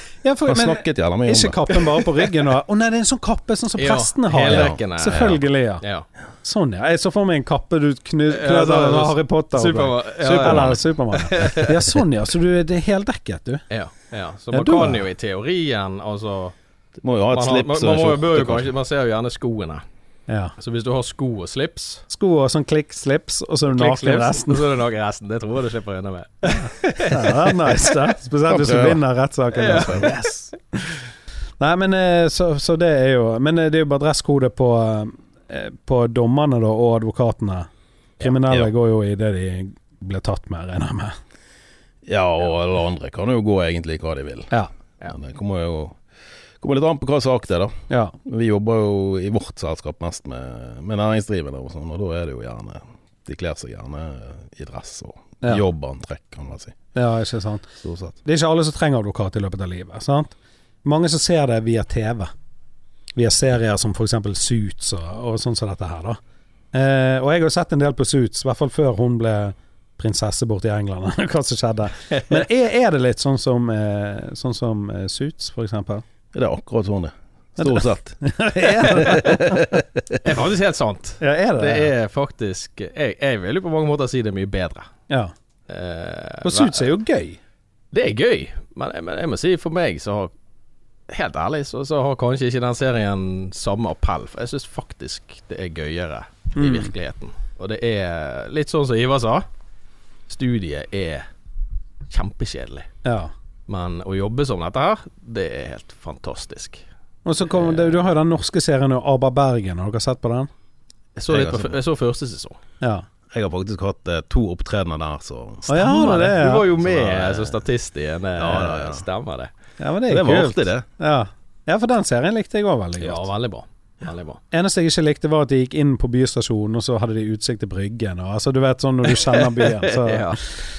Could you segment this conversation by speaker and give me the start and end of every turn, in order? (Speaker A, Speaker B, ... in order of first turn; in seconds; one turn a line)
Speaker A: 0.2-5.8
Speaker B: 0.5-1.6
Speaker C: 3.8-6.1
Speaker B: 4.5-4.8
Speaker A: 6.4-13.6
Speaker C: 8.3-11.9
Speaker B: 10.4-10.8
Speaker C: 13.7-16.6
Speaker A: 14.5-15.0
Speaker B: 17.0-18.7
Speaker C: 17.3-19.8
Speaker A: 20.3-20.5
Speaker C: 20.6-22.1
Speaker A: 22.1-24.7
Speaker C: 23.7-27.9
Speaker A: 26.5-30.2
Speaker B: 28.5-29.0
Speaker C: 29.6-30.5
Speaker B: 29.8-30.1
Speaker A: 31.6-37.7
Speaker A: 38.2-41.2
Speaker B: 42.1-44.5
Speaker B: 45.0-46.0
Speaker B: 46.6-56.8
Speaker A: 47.9-48.1
Speaker A: 57.0-57.7
Speaker B: 57.8-58.2
Speaker A: 58.2-60.3
Speaker A: 60.8-62.3
Speaker A: 63.2-66.2
Speaker A: 66.7-76.0
Speaker C: 72.1-72.4
Speaker B: 76.3-80.2
Speaker A: 77.6-79.6
Speaker C: 80.2-84.9
Speaker A: 81.2-81.9
Speaker C: 85.7-86.9
Speaker A: 86.4-87.4
Speaker C: 87.9-90.3
Speaker C: 91.1-99.5
Speaker A: 96.6-96.9
Speaker C: 100.3-101.3
Speaker C: 102.1-102.9
Speaker A: 103.0-103.3
Speaker C: 103.7-106.8
Speaker A: 107.2-110.5
Speaker C: 111.2-112.6
Speaker B: 111.3-111.8
Speaker A: 112.8-113.1
Speaker B: 113.3-115.7
Speaker A: 115.7-116.7
Speaker C: 115.7-119.5
Speaker B: 116.8-117.6
Speaker B: 118.3-119.0
Speaker A: 119.8-123.3
Speaker B: 120.1-120.8
Speaker C: 123.0-124.4
Speaker A: 124.5-130.5
Speaker C: 129.2-130.4